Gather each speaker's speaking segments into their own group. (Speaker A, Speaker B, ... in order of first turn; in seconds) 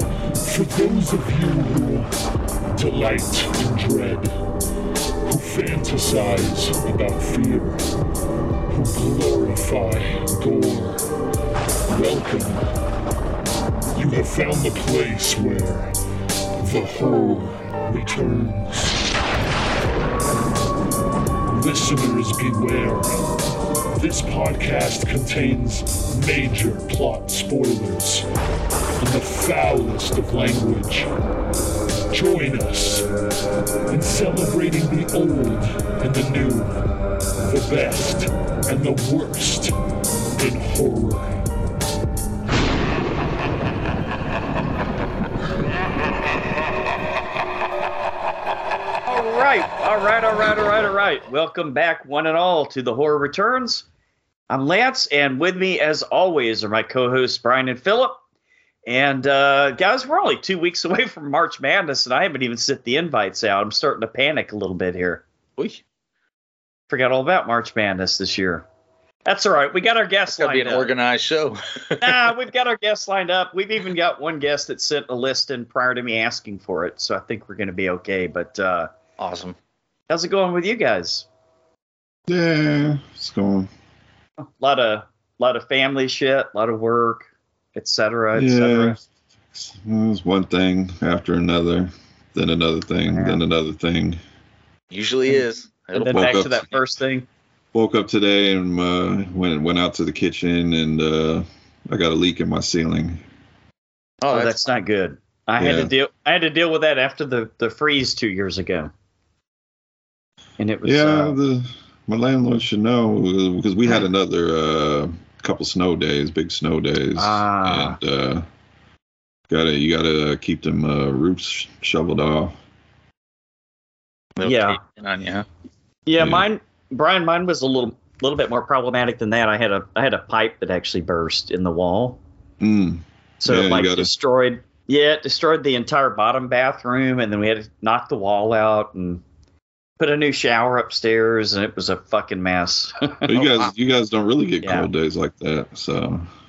Speaker A: 0.4-2.1, 2.7-4.3, 5.2-7.9, 8.7-11.1, 11.9-12.6, 13.9-15.9, 16.6-19.0, 21.5-23.3, 23.9-28.2, 29.0-31.1, 32.1-33.1, 33.9-36.8, 37.4-39.7, 40.4-41.4
Speaker B: 49.1-53.8, 54.5-58.2, 58.9-65.2, 66.9-68.6, 69.2-70.9, 72.0-78.9, 80.1-81.3, 84.4-89.0, 93.1-93.4, 95.9-97.3, 104.3-108.9, 110.6-111.4, 117.2-118.0, 124.4-124.8, 126.0-132.2, 133.4-139.2, 140.0-143.3
Speaker C: 65.6-65.8, 70.4-72.3, 79.2-79.5, 94.9-96.5, 104.2-104.7, 124.4-125.4, 143.4-143.7
Speaker D: 82.3-83.7, 88.3-89.0, 89.5-94.2, 96.1-96.7, 97.7-103.2, 105.6-105.9, 110.8-118.5, 119.5-122.5, 126.2-126.5, 132.6-134.1, 143.3-146.3